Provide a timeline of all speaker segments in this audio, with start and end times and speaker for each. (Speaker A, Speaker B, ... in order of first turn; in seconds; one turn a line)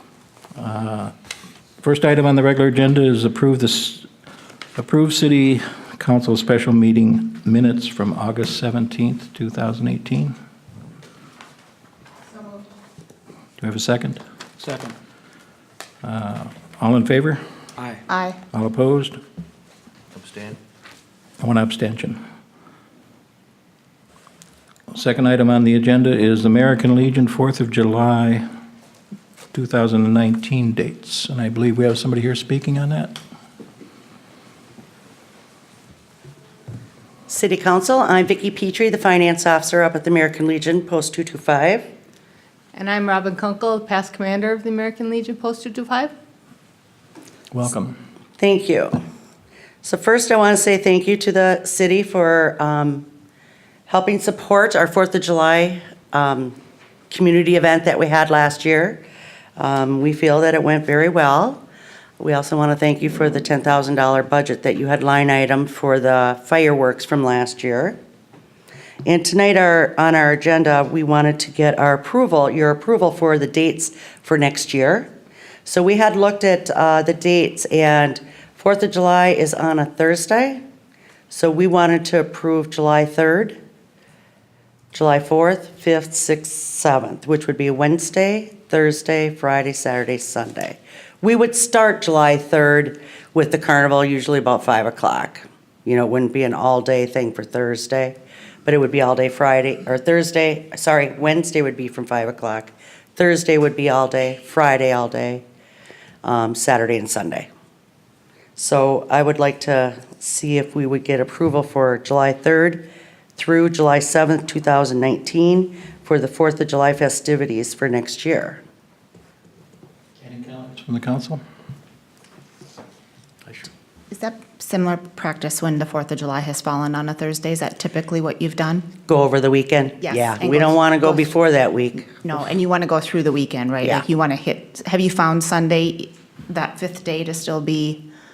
Speaker A: 0.6-1.1
Speaker A: 1.8-4.1
Speaker A: 4.8-10.3
Speaker A: 13.6-14.2
Speaker A: 16.0-17.4
Speaker B: 18.1-18.4
Speaker A: 18.5-19.2
Speaker A: 21.4-22.2
Speaker A: 24.9-28.5
Speaker A: 29.5-33.2
Speaker C: 37.3-41.9
Speaker D: 42.7-46.1
Speaker A: 47.5-48.0
Speaker C: 48.4-49.0
Speaker C: 49.8-53.1
Speaker C: 53.9-56.6
Speaker C: 57.1-59.0
Speaker C: 59.6-61.6
Speaker C: 62.2-68.0
Speaker C: 69.0-75.1
Speaker C: 75.7-80.6
Speaker C: 81.3-83.6
Speaker C: 84.9-105.4
Speaker C: 106.2-107.5
Speaker C: 108.6-112.8
Speaker C: 113.4-118.6
Speaker A: 120.2-121.4
Speaker B: 124.1-128.9
Speaker C: 129.1-132.2
Speaker B: 130.0-131.3
Speaker B: 132.1-138.1